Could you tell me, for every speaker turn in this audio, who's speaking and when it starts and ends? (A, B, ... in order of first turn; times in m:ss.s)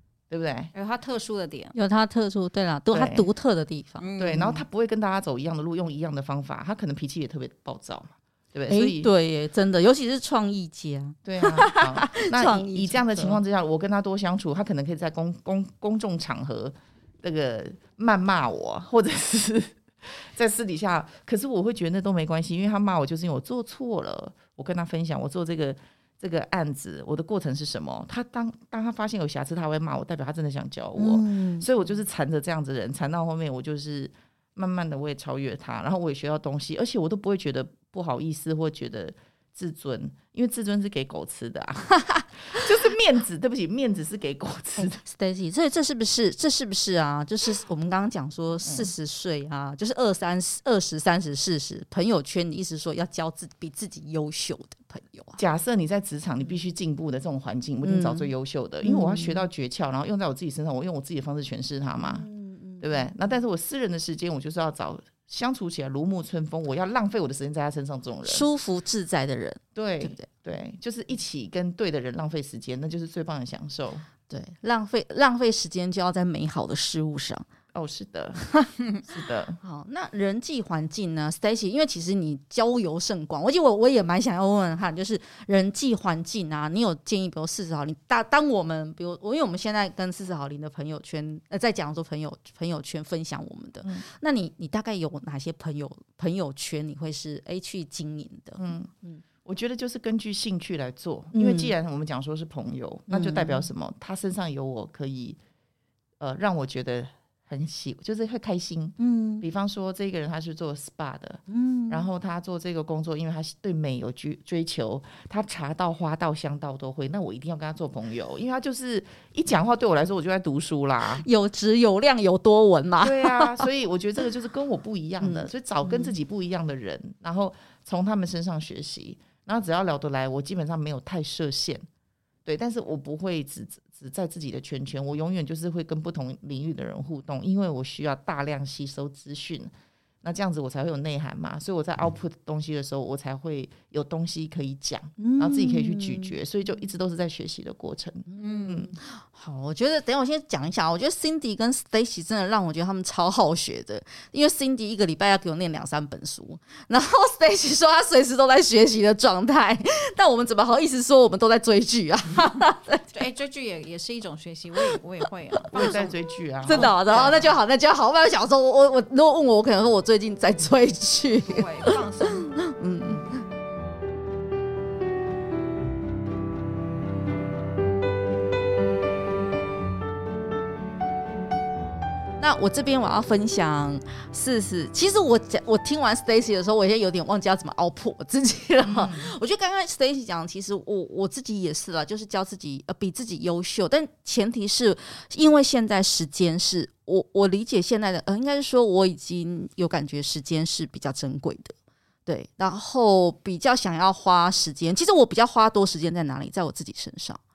0:00.3-0:00.7 A
0:00.7-0:01.7 B
0:01.7-0:04.0 C
0:02.9-0:03.3 A
0:04.0-0:04.6 B
0:04.2-0:09.1 A
0:08.7-0:13.4 C
0:11.2-0:45.0 A
0:31.0-0:31.6 C
0:44.8-0:55.4 C
0:48.6-0:48.9 A
0:55.4-1:02.3 A
0:57.8-0:58.3 C
0:58.8-0:59.4 C
1:02.0-1:03.0 C
1:02.8-1:08.5 A
1:08.2-1:10.3 C
1:09.7-1:14.0 A
1:14.3-1:17.4 C
1:17.7-1:18.5 A
1:19.0-1:19.6 A
1:19.6-1:39.2 C
1:38.6-1:38.9 A
1:39.4-1:45.4 A
1:41.3-1:41.7 C
1:43.1-1:43.7 C
1:46.2-2:01.2 A
1:49.0-1:49.4 C
1:51.5-1:52.0 C
2:01.2-2:03.6 C
2:03.0-2:11.8 A
2:05.2-2:06.1 C
2:12.4-2:19.7 A
2:20.2-2:28.9 A
2:25.2-2:26.3 C
2:28.3-2:43.1 C
2:28.4-2:28.8 B
2:43.1-2:46.1 B
2:45.7-2:47.5 A
2:46.6-2:52.0 C
2:46.7-2:46.9 B
2:51.4-2:52.6 B
2:52.5-2:53.4 C
3:02.4-3:21.7 C
3:08.8-3:09.3 A
3:22.3-3:27.4 C